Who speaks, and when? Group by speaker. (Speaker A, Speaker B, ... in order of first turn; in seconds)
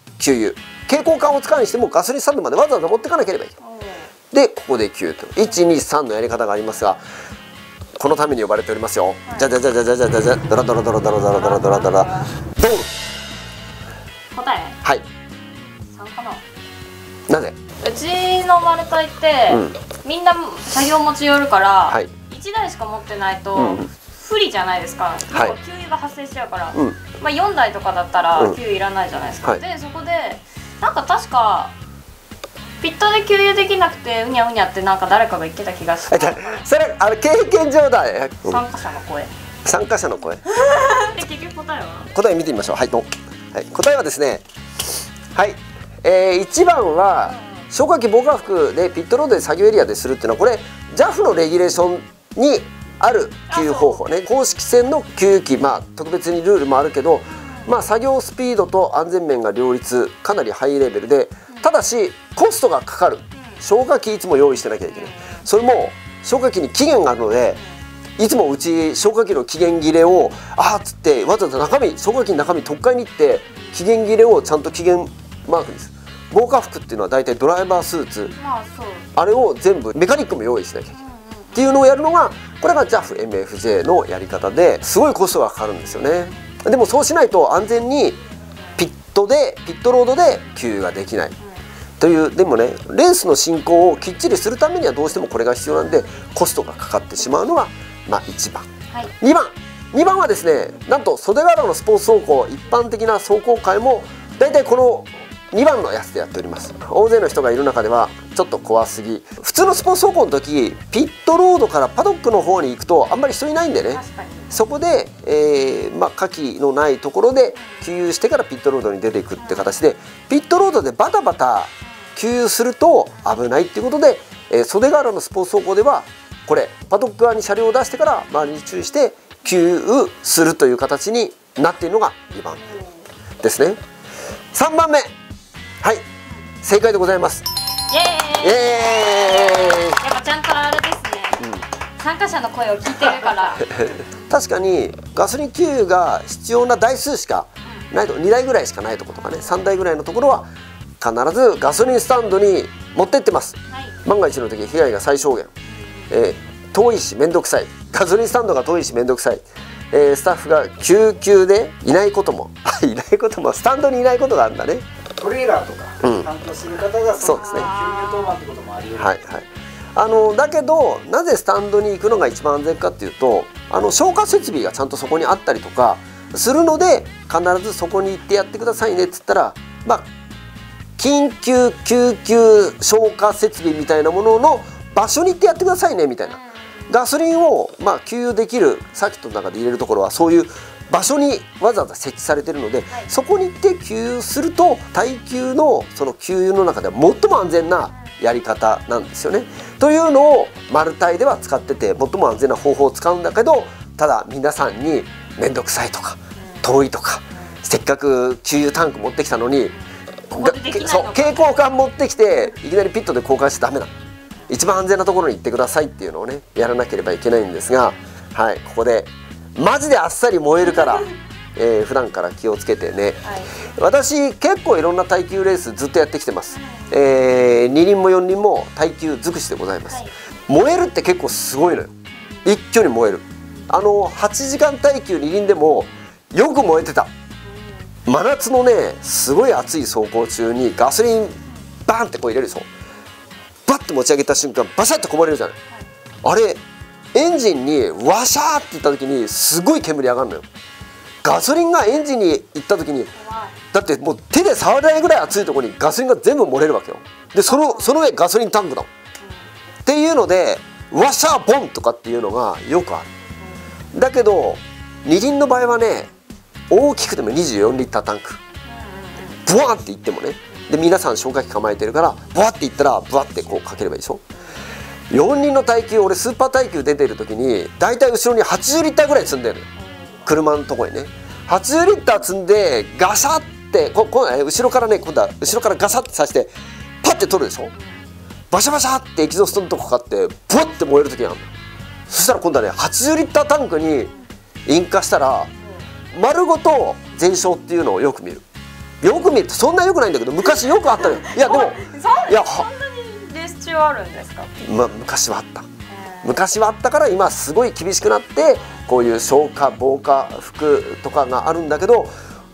Speaker A: 0.2-3.5, 4.3-7.0, 8.0-12.9, 17.3-17.6, 19.5-19.8, 23.5-23.9, 25.3-25.6, 26.7-27.0, 36.1-38.6, 39.6-40.4, 42.1-44.4, 45.3-67.6, 68.2-78.3, 79.2-80.9, 81.5-88.2, 88.8-91.3, 92.0-98.7, 99.2-132.6, 133.4-133.8, 134.5-135.1, 136.6-137.4, 138.4-140.0, 141.4-141.7, 143.6-150.5, 151.0-155.5, 156.1-164.8, 166.0-166.3, 167.2-167.7, 169.0-180.1, 181.0-209.7, 210.3-213.9, 214.5-231.9, 232.4-237.1, 238.1-242.7, 243.7-245.6, 246.2-246.6, 247.1-250.4, 251.2-253.1, 253.7-258.9, 259.9-263.1, 263.9-266.1, 266.7-268.4, 269.4-274.2, 275.1-279.7, 280.2-286.5, 287.0-287.7, 288.5-291.5, 292.1-294.1, 294.7-295.5, 296.1-298.4, 299.0-302.7, 304.6-305.6, 306.2-312.1
Speaker B: 3.6-4.1, 11.3-12.3, 14.3-14.8, 15.9-16.4, 17.8-31.7, 32.8-36.6, 38.4-39.3, 40.4-42.1, 53.5-54.0, 57.3-57.7, 63.3-63.6, 64.9-65.4, 78.3-79.1, 80.9-81.6, 113.9-114.5, 119.4-119.7, 132.6-133.1, 137.9-143.8, 153.7-154.0, 155.7-156.1, 167.3-168.4, 186.3-186.9, 206.4-206.7, 210.3-211.6, 223.2-223.5, 226.5-226.9, 232.2-232.5, 237.4-237.9, 253.2-253.6, 257.5-258.0, 268.7-269.4, 301.1-304.5, 305.9-306.4
Speaker C: 165.2-169.2